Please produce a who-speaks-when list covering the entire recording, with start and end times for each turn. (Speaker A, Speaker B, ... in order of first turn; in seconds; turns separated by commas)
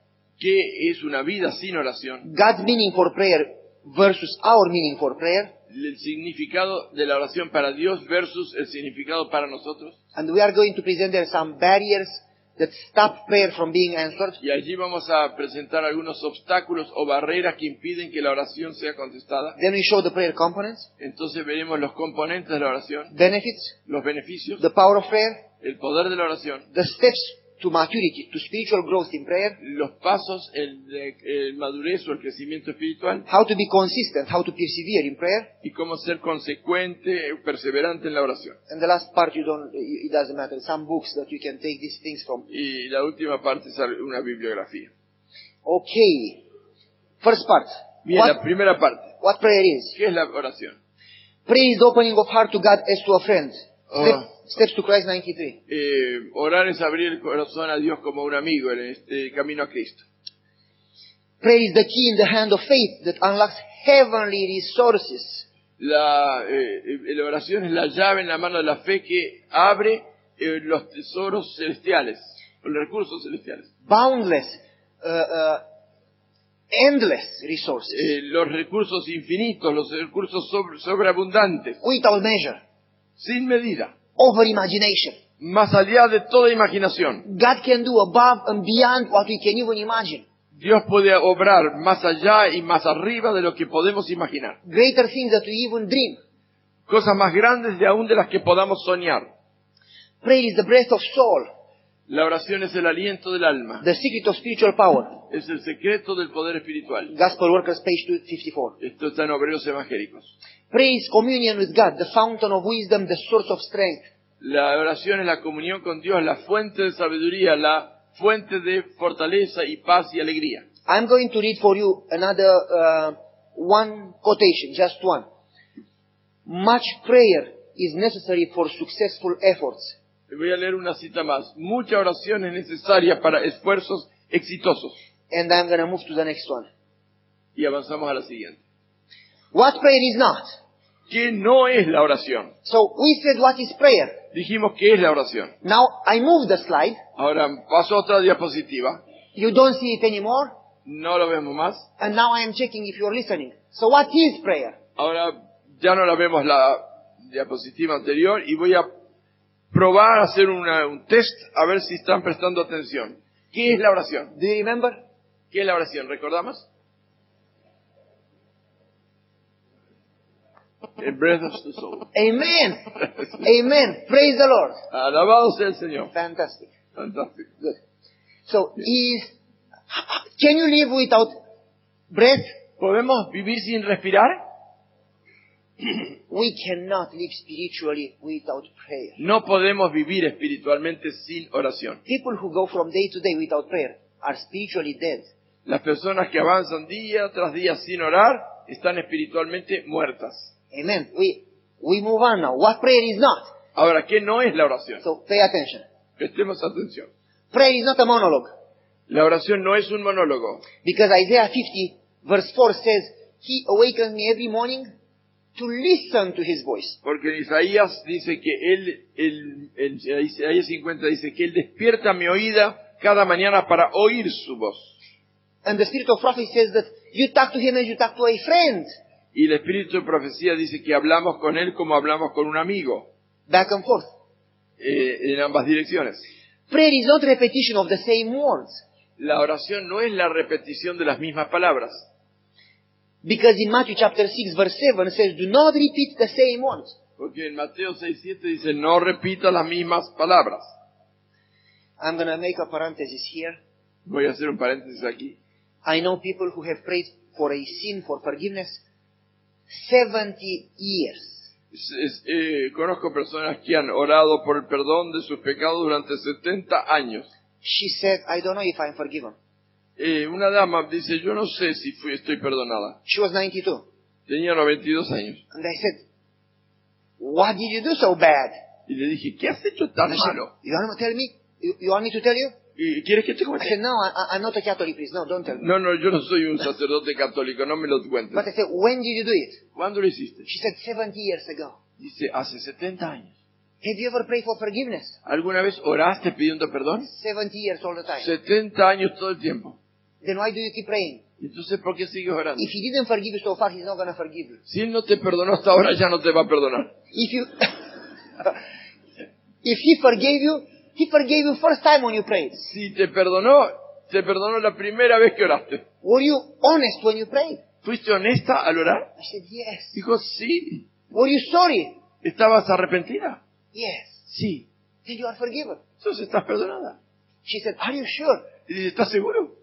Speaker A: 0.4-2.3, Speaker B: 2.2-5.5, Speaker A: 5.7-9.9, Speaker B: 10.1-14.4, Speaker A: 14.4-19.6, Speaker B: 19.6-20.9, Speaker A: 21.0-23.1, Speaker B: 23.1-23.7, Speaker A: 23.9-24.6, Speaker B: 24.6-25.4, Speaker A: 25.6-26.6, Speaker B: 26.7-29.6, Speaker A: 29.6-33.3, Speaker B: 33.3-35.5, Speaker A: 35.6-38.6, Speaker B: 38.7-42.5, Speaker A: 42.5-44.9, Speaker B: 45.6-46.4, Speaker B: 47.2-48.4, Speaker A: 48.0-49.1, Speaker B: 49.2-50.0, Speaker A: 49.9-50.8, Speaker B: 51.5-55.6, Speaker A: 53.9-54.2, Speaker A: 55.7-60.0, Speaker B: 61.4-65.5, Speaker A: 65.8-73.7, Speaker B: 73.9-75.6, Speaker B: 76.7-78.1, Speaker A: 77.9-81.8, Speaker B: 81.8-82.6, Speaker A: 83.2-83.9, Speaker B: 84.2-85.2, Speaker A: 85.4-87.2, Speaker B: 87.2-90.2, Speaker A: 90.5-94.6, Speaker B: 94.6-96.2, Speaker A: 96.9-99.3, Speaker B: 100.2-101.5, Speaker A: 102.1-103.8, Speaker B: 103.8-105.2, Speaker A: 105.3-107.1, Speaker B: 107.1-108.8, Speaker A: 108.8-110.3, Speaker B: 110.7-114.0, Speaker A: 114.4-120.7, Speaker B: 120.9-125.2, Speaker B: 126.5-129.9, Speaker A: 130.3-135.0, Speaker B: 135.3-136.7, Speaker A: 137.6-138.6, Speaker B: 139.5-140.5, Speaker A: 141.1-142.5, Speaker B: 142.6-144.2, Speaker A: 144.3-145.5, Speaker B: 145.6-147.0, Speaker A: 147.2-149.0, Speaker B: 149.3-150.5, Speaker A: 150.8-151.9, Speaker B: 152.0-154.8, Speaker A: 155.0-158.9, Speaker A: 159.7-164.3, Speaker B: 164.3-165.0, Speaker A: 165.5-166.7, Speaker A: 171.0-172.1, Speaker B: 172.1-172.8, Speaker B: 173.4-174.8, Speaker A: 174.9-176.1, Speaker B: 176.1-176.7, Speaker A: 176.9-177.5, Speaker B: 178.5-179.3, Speaker B: 179.9-181.3, Speaker B: 182.1-182.5, Speaker A: 182.8-184.4, Speaker B: 186.3-189.2, Speaker A: 189.2-192.0, Speaker B: 192.1-195.3, Speaker A: 195.7-200.5, Speaker B: 200.7-203.5, Speaker A: 203.7-205.0, Speaker B: 205.0-205.8, Speaker A: 206.2-207.1, Speaker B: 207.5-208.5, Speaker A: 209.1-210.7, Speaker B: 210.8-214.9, Speaker B: 215.6-217.0, Speaker A: 217.0-224.9, Speaker B: 225.6-228.9, Speaker A: 229.3-233.1, Speaker B: 233.5-234.1, Speaker A: 234.8-236.2, Speaker B: 236.7-238.8, Speaker A: 239.2-242.1, Speaker B: 243.2-247.0, Speaker A: 247.2-250.7, Speaker B: 252.0-253.6, Speaker A: 254.0-255.4, Speaker B: 255.8-258.8, Speaker B: 259.7-261.5, Speaker A: 261.7-267.3, Speaker B: 267.6-269.4, Speaker A: 270.0-273.0, Speaker B: 273.1-273.9, Speaker A: 274.3-275.4, Speaker B: 275.5-276.0, Speaker B: 277.2-278.5, Speaker A: 278.9-280.5, Speaker B: 280.1-282.5, Speaker A: 282.8-283.8, Speaker B: 283.6-285.7, Speaker A: 285.6-288.5, Speaker B: 288.3-289.6, Speaker A: 289.8-290.5, Speaker B: 290.4-291.8, Speaker A: 292.0-293.3, Speaker B: 293.8-295.2, Speaker A: 295.2-297.1, Speaker B: 297.0-298.3, Speaker A: 298.2-299.8, Speaker B: 300.2-301.2, Speaker A: 301.4-302.7, Speaker B: 302.6-304.6, Speaker A: 304.7-306.9, Speaker B: 307.1-307.7, Speaker B: 309.6-312.6, Speaker A: 312.6-315.9, Speaker B: 316.0-317.6, Speaker A: 317.8-319.1, Speaker B: 319.2-320.0, Speaker A: 319.9-320.8, Speaker B: 321.1-322.0, Speaker A: 322.2-323.4, Speaker B: 323.7-324.2, Speaker A: 324.3-324.7, Speaker B: 325.0-325.8, Speaker A: 326.0-327.0, Speaker B: 327.4-328.5, Speaker A: 328.6-329.5